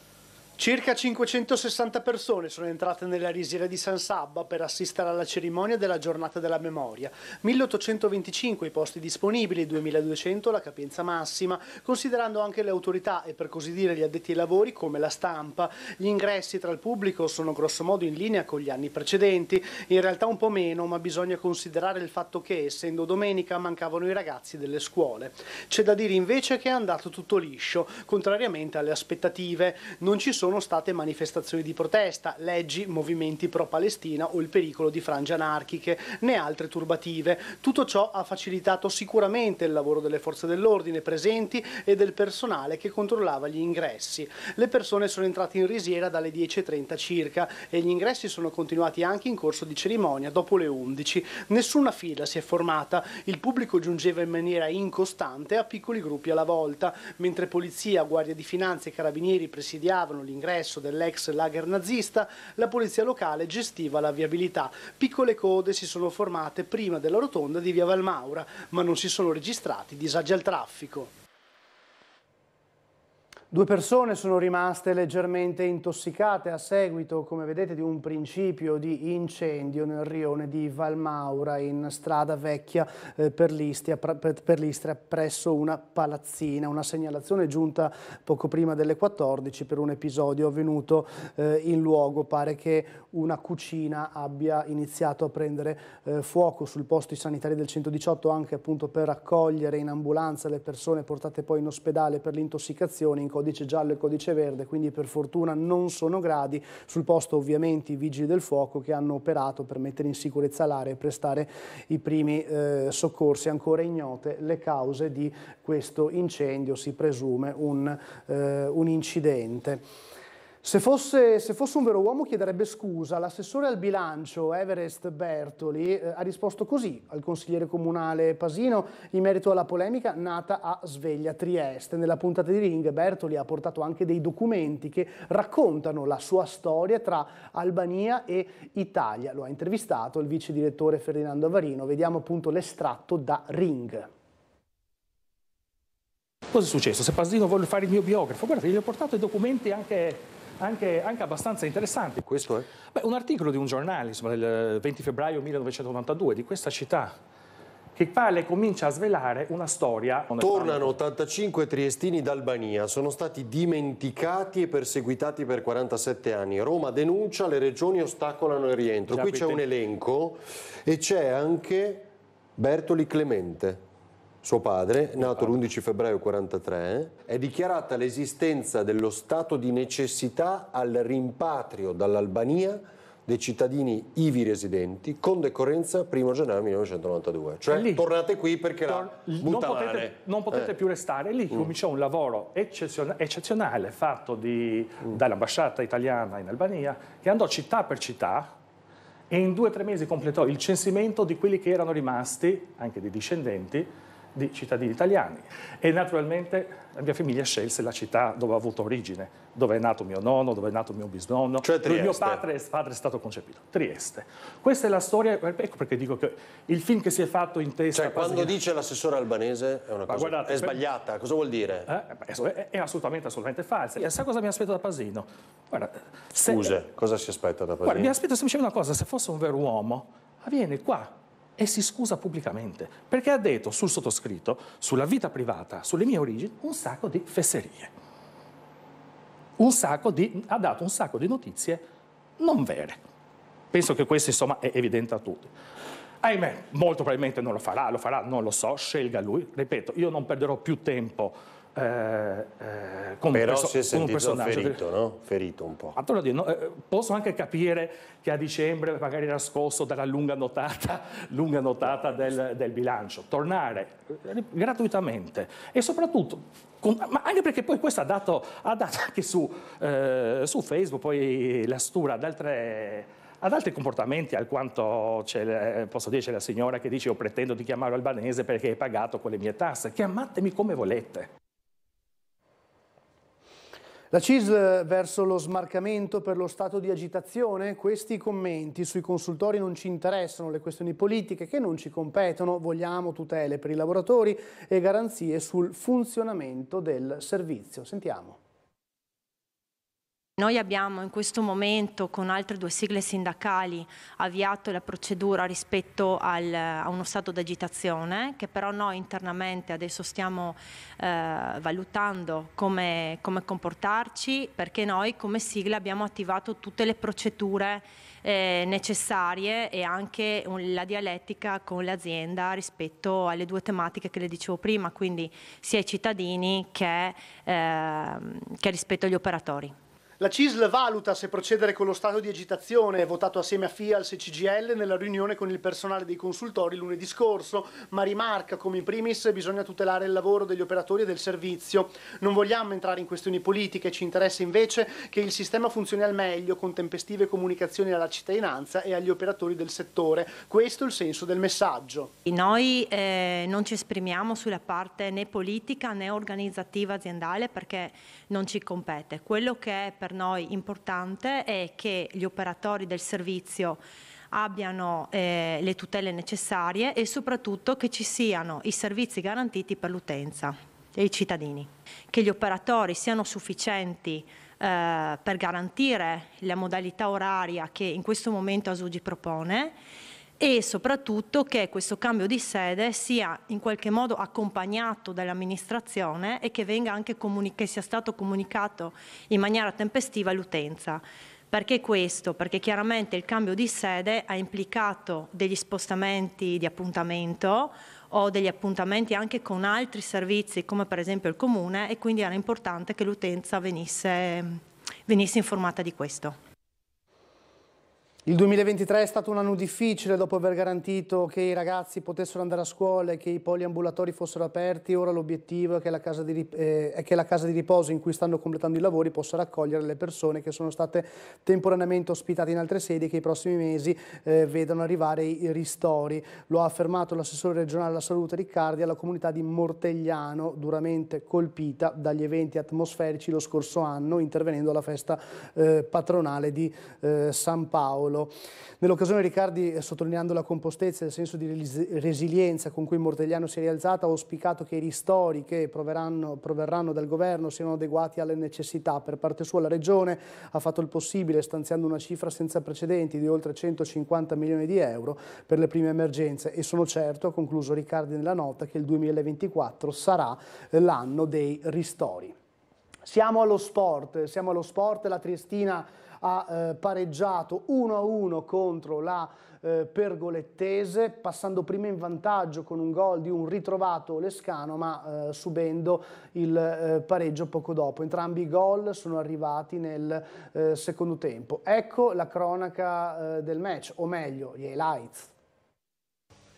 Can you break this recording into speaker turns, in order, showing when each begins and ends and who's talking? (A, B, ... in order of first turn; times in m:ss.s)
0:00.6-1:11.1 A
1:13.5-1:59.8 A
2:00.6-2:24.1 A
2:26.5-2:32.2 B
2:32.2-2:32.7 C
2:32.9-2:37.2 B
2:38.0-2:41.0 B
2:40.4-2:53.8 C
2:49.1-2:49.6 B
2:54.4-3:10.8 C
3:07.7-3:08.1 B
3:08.8-3:18.5 B
3:19.3-3:38.6 B
3:31.6-3:32.4 C
3:37.9-3:41.9 C
3:40.0-3:40.8 B
3:41.9-3:46.8 B
3:46.5-3:48.2 C
3:47.8-3:57.9 B
3:59.6-4:01.8 B
4:02.4-4:03.0 B
4:03.7-4:05.5 B
4:06.2-4:14.9 B
4:13.3-4:16.0 C
4:16.0-4:41.3 B
4:44.1-4:58.4 A
5:00.4-5:29.7 D
5:30.2-5:52.1 A
5:52.3-6:19.8 D
6:20.4-6:46.4 D
6:48.3-7:42.4 A
7:43.0-8:05.3 A